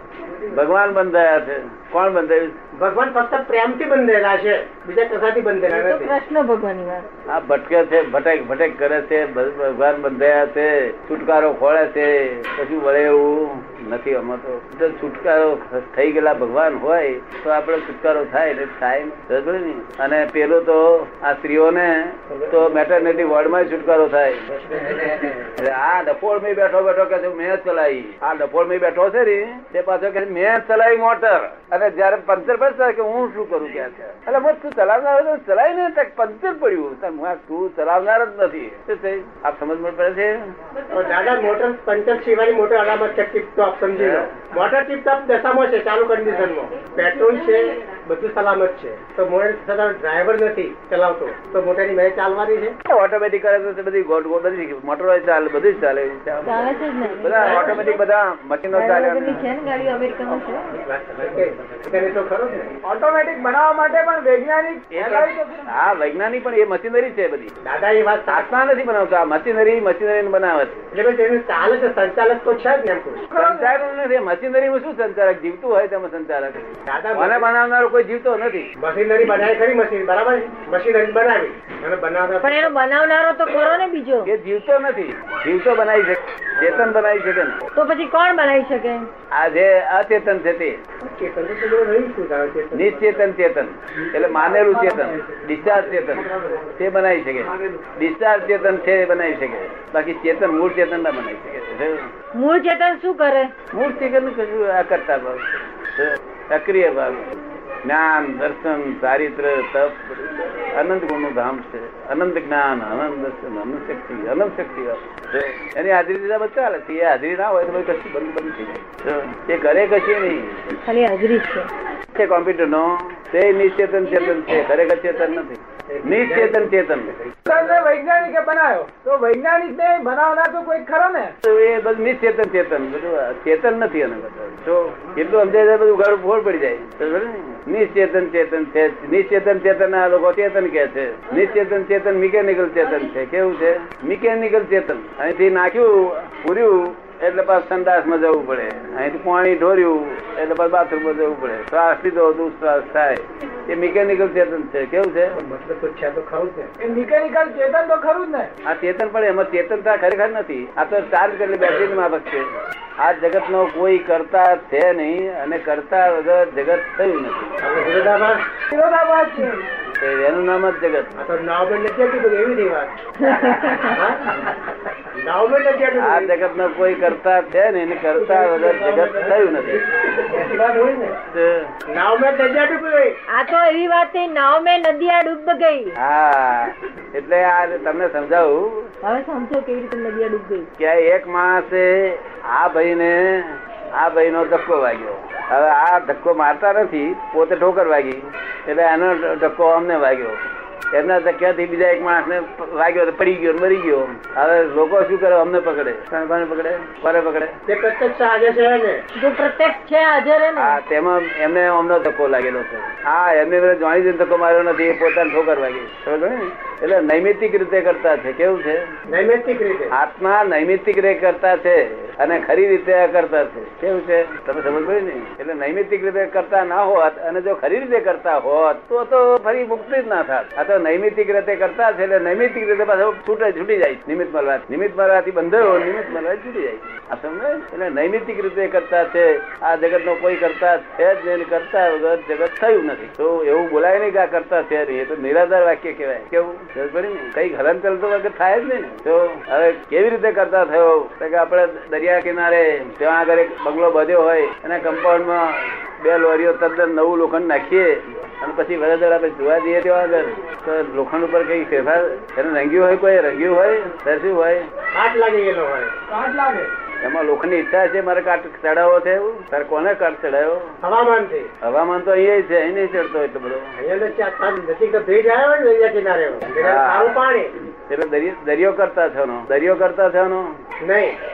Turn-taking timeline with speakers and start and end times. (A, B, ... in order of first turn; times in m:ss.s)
0:00.5-0:02.6 A
0:02.8-0:06.2 B
0:05.7-0:07.1 C
0:07.3-0:24.4 A
0:22.3-0:22.6 B
0:24.5-0:25.5 B
0:25.6-0:40.4 A
0:40.9-0:52.8 B
0:44.0-0:44.4 A
0:52.9-0:59.5 A
0:56.4-0:58.0 C
0:58.7-1:00.7 C
1:00.8-1:02.7 B
1:02.8-1:05.8 D
1:04.9-1:07.5 A
1:07.6-1:08.5 B
1:08.3-1:10.8 A
1:10.9-1:13.3 B
1:13.3-1:13.8 D
1:13.4-1:18.7 A
1:16.8-1:17.5 B
1:18.8-1:22.7 B
1:22.4-1:24.3 C
1:24.2-1:27.6 A
1:26.6-1:26.9 B
1:27.8-1:29.1 C
1:29.3-1:30.8 A
1:31.0-1:33.3 B
1:32.7-1:36.2 A
1:36.0-1:36.8 B
1:36.8-1:42.1 A
1:37.5-1:37.8 B
1:42.3-1:43.5 C
1:43.7-1:47.3 A
1:47.8-2:00.6 A
2:00.8-2:01.7 C
2:02.1-2:07.2 A
2:05.9-2:07.6 B
2:07.4-2:11.3 D
2:11.4-2:35.4 A
2:35.3-2:36.7 B
2:36.8-2:38.5 D
2:38.6-2:42.5 A
2:43.0-2:47.6 A
2:47.6-2:48.4 B
2:48.7-2:49.6 D
2:50.0-2:51.1 A
2:51.2-2:53.0 B
2:53.2-2:54.0 C
2:53.8-2:54.3 B
2:55.1-2:56.4 B
2:56.0-2:59.8 A
2:58.1-3:01.2 B
3:01.3-3:01.7 A
3:01.9-3:03.2 B
3:03.3-3:05.9 C
3:06.0-3:08.9 A
3:09.0-3:10.7 C
3:10.8-3:20.4 A
3:20.9-3:27.5 A
3:27.7-3:29.0 B
3:29.2-3:30.8 C
3:30.6-3:38.8 A
3:39.1-3:39.9 B
3:39.9-4:24.7 A
4:24.9-4:25.9 B
4:26.1-4:26.7 D
4:27.0-4:30.8 A
4:30.8-4:31.5 B
4:31.6-4:33.7 A
4:33.8-4:37.5 B
4:36.5-4:37.2 A
4:37.9-4:40.6 A
4:40.8-4:41.2 B